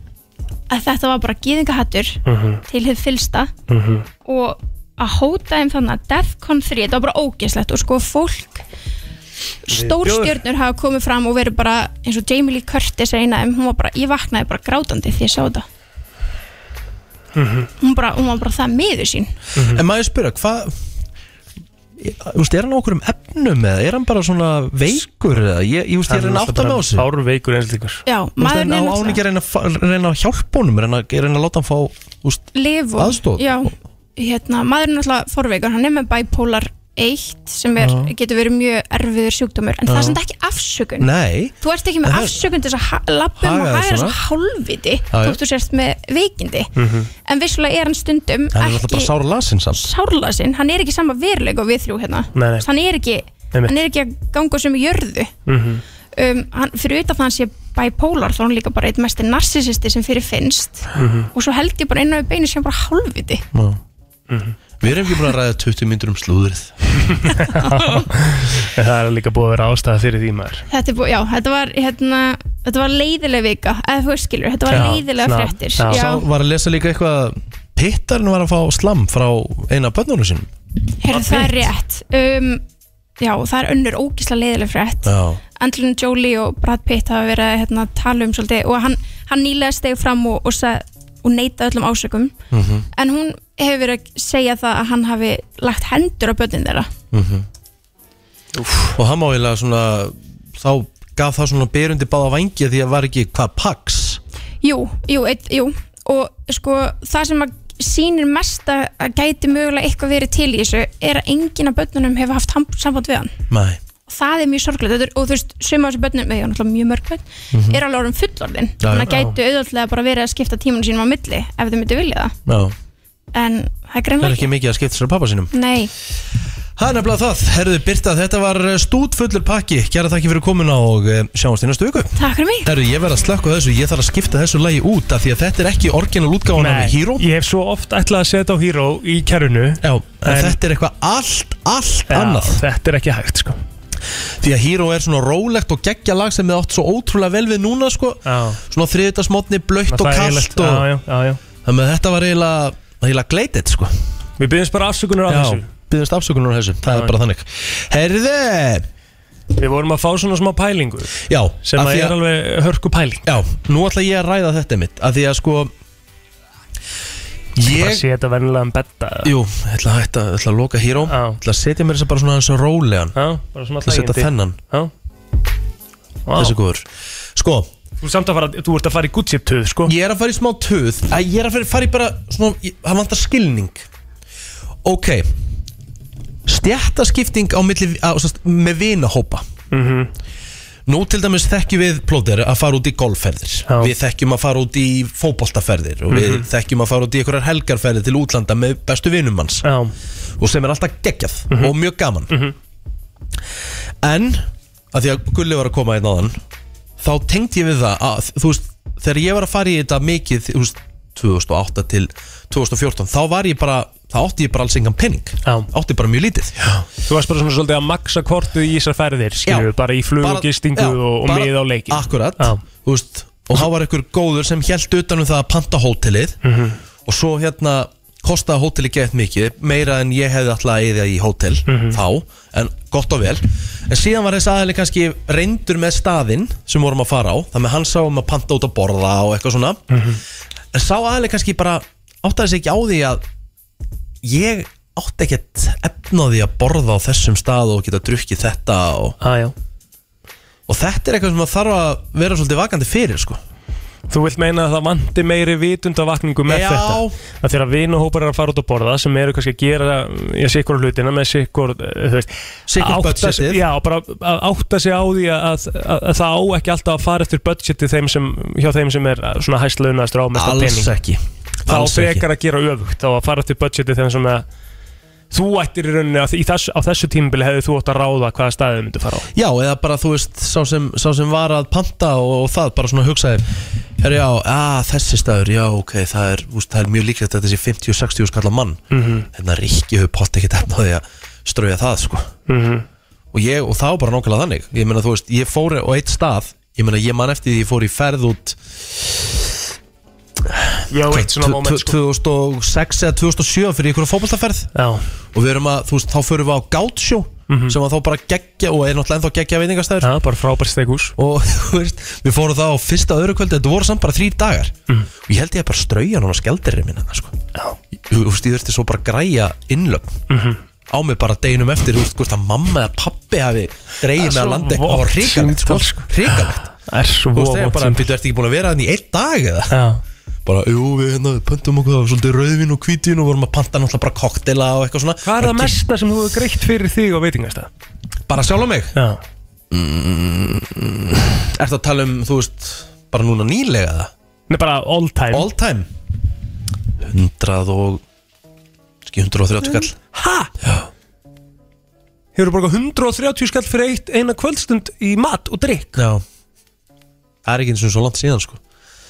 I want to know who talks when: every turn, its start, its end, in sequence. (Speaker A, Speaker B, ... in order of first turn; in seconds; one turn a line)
Speaker A: 0.7-3.5
Speaker B: 2.2-2.6
Speaker B: 3.7-4.0
Speaker A: 4.2-8.6
Speaker A: 9.6-15.6
Speaker B: 9.7-10.4
Speaker B: 17.4-17.7
Speaker A: 17.8-19.4
Speaker B: 19.5-19.8
Speaker C: 19.7-20.8
Speaker C: 22.0-27.1
Speaker B: 26.1-28.0
Speaker A: 28.1-29.2
Speaker C: 28.4-33.7
Speaker A: 32.5-41.1
Speaker C: 37.8-38.1
Speaker C: 39.9-40.2
Speaker C: 41.0-42.4
Speaker A: 41.6-46.7
Speaker C: 43.4-44.2
Speaker C: 45.1-45.4
Speaker B: 46.8-47.1
Speaker A: 47.2-49.1
Speaker C: 48.5-49.9
Speaker A: 49.7-55.3
Speaker B: 52.3-52.7
Speaker B: 55.5-55.8
Speaker A: 56.1-63.4
Speaker B: 60.9-61.3
Speaker C: 63.5-63.8
Speaker B: 64.3-64.5
Speaker C: 64.8-67.0
Speaker B: 67.0-70.6
Speaker A: 70.7-76.2
Speaker B: 74.7-76.1
Speaker C: 75.8-80.5
Speaker A: 81.0-82.6
Speaker B: 81.1-81.7
Speaker A: 83.2-92.3
Speaker C: 85.0-85.4
Speaker C: 92.5-92.9
Speaker A: 93.0-96.9
Speaker C: 97.1-97.5
Speaker B: 98.5-99.0
Speaker C: 98.9-104.2
Speaker A: 104.6-113.3
Speaker C: 113.5-113.8
Speaker A: 114.1-122.3
Speaker C: 117.5-117.8
Speaker C: 118.8-119.2
Speaker B: 119.1-119.3
Speaker C: 122.5-122.7
Speaker A: 123.3-124.5
Speaker C: 124.2-125.5
Speaker A: 125.5-125.9
Speaker C: 126.8-137.3
Speaker A: 132.2-132.7
Speaker B: 136.6-140.6
Speaker C: 139.8-142.6
Speaker B: 142.1-143.6
Speaker C: 144.4-150.9
Speaker B: 148.2-148.6
Speaker B: 149.9-151.4
Speaker C: 151.6-154.1
Speaker B: 154.4-155.7
Speaker C: 155.3-158.8
Speaker B: 156.8-157.1
Speaker B: 159.6-163.2
Speaker C: 161.2-162.2
Speaker C: 163.2-165.7
Speaker C: 167.6-168.0
Speaker B: 167.6-169.3
Speaker C: 169.2-173.1
Speaker B: 171.1-171.4
Speaker B: 173.1-174.9
Speaker C: 173.8-174.6
Speaker B: 176.2-176.6
Speaker C: 176.3-177.7
Speaker B: 178.0-179.9
Speaker C: 179.8-183.8
Speaker C: 184.8-185.3
Speaker C: 186.4-189.4
Speaker B: 189.7-190.1
Speaker C: 190.8-199.7
Speaker B: 196.1-196.4
Speaker B: 199.6-199.9
Speaker C: 200.4-202.3
Speaker B: 202.3-202.5
Speaker C: 204.0-206.4
Speaker C: 207.0-216.6
Speaker B: 215.4-215.7
Speaker B: 216.6-222.6
Speaker C: 219.4-226.4
Speaker B: 226.4-226.8
Speaker C: 227.0-239.8
Speaker B: 231.7-232.0
Speaker B: 239.9-240.2
Speaker C: 240.7-243.2
Speaker C: 244.2-249.2
Speaker B: 249.2-249.5
Speaker C: 250.7-253.4
Speaker B: 254.1-270.9
Speaker C: 256.4-257.2
Speaker C: 262.7-263.6
Speaker C: 270.3-272.2
Speaker B: 271.7-274.4
Speaker B: 275.3-279.3
Speaker C: 279.3-292.3
Speaker B: 288.9-289.3
Speaker B: 292.5-292.9
Speaker C: 293.3-299.5
Speaker C: 300.4-304.7
Speaker B: 300.9-302.0
Speaker B: 304.7-305.0
Speaker C: 305.3-310.2
Speaker B: 307.5-307.8
Speaker B: 310.0-311.1
Speaker C: 311.2-317.4
Speaker C: 318.0-320.2
Speaker B: 320.3-320.6
Speaker C: 320.9-326.7
Speaker B: 324.1-328.1
Speaker C: 327.3-329.8
Speaker B: 329.7-330.0
Speaker C: 330.4-335.8
Speaker B: 335.2-337.7
Speaker C: 338.3-338.9
Speaker B: 338.9-339.2
Speaker C: 339.7-344.1
Speaker B: 344.5-345.5
Speaker C: 345.3-345.9
Speaker C: 347.0-348.0
Speaker C: 349.0-349.9
Speaker B: 349.7-350.5
Speaker B: 352.4-356.0
Speaker C: 355.9-356.2
Speaker C: 357.4-358.6